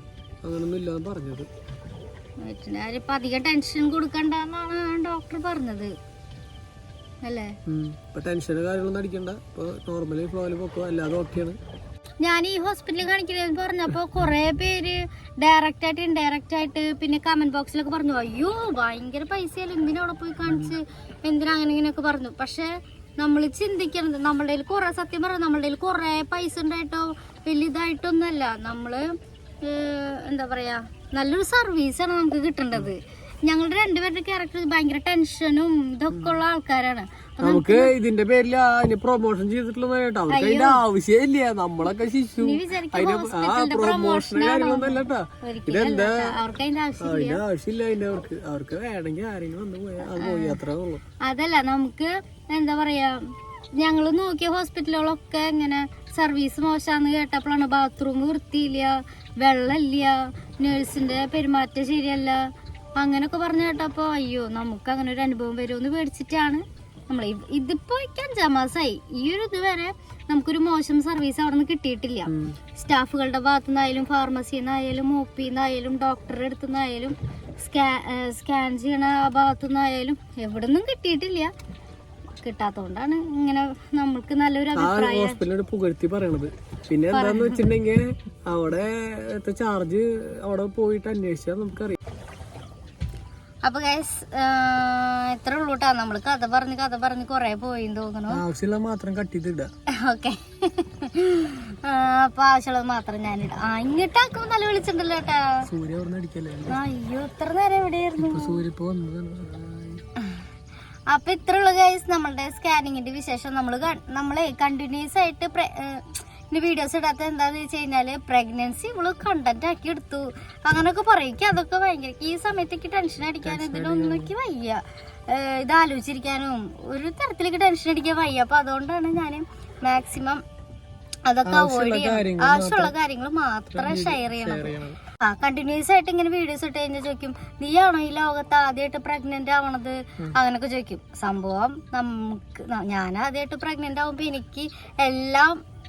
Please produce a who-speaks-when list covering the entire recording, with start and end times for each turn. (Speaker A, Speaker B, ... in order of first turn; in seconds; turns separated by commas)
Speaker A: 0.4-1.5, Speaker B: 2.4-5.9, Speaker B: 7.2-7.5, Speaker A: 7.7-11.6, Speaker B: 12.2-37.9, Speaker A: 20.5-20.8, Speaker A: 37.4-46.4, Speaker B: 40.3-40.8, Speaker B: 42.4-47.4, Speaker A: 47.0-51.0, Speaker B: 50.1-50.6, Speaker B: 51.2-81.5, Speaker A: 72.3-72.6, Speaker B: 82.4-85.4, Speaker A: 84.8-92.0, Speaker B: 87.1-87.6, Speaker B: 93.6-98.4, Speaker A: 98.3-99.7, Speaker B: 99.9-105.7, Speaker A: 105.7-106.8, Speaker B: 106.7-108.6, Speaker A: 108.2-110.0, Speaker B: 111.1-130.4, Speaker A: 123.5-124.3, Speaker B: 131.3-145.6, Speaker A: 131.5-132.9, Speaker A: 133.7-135.0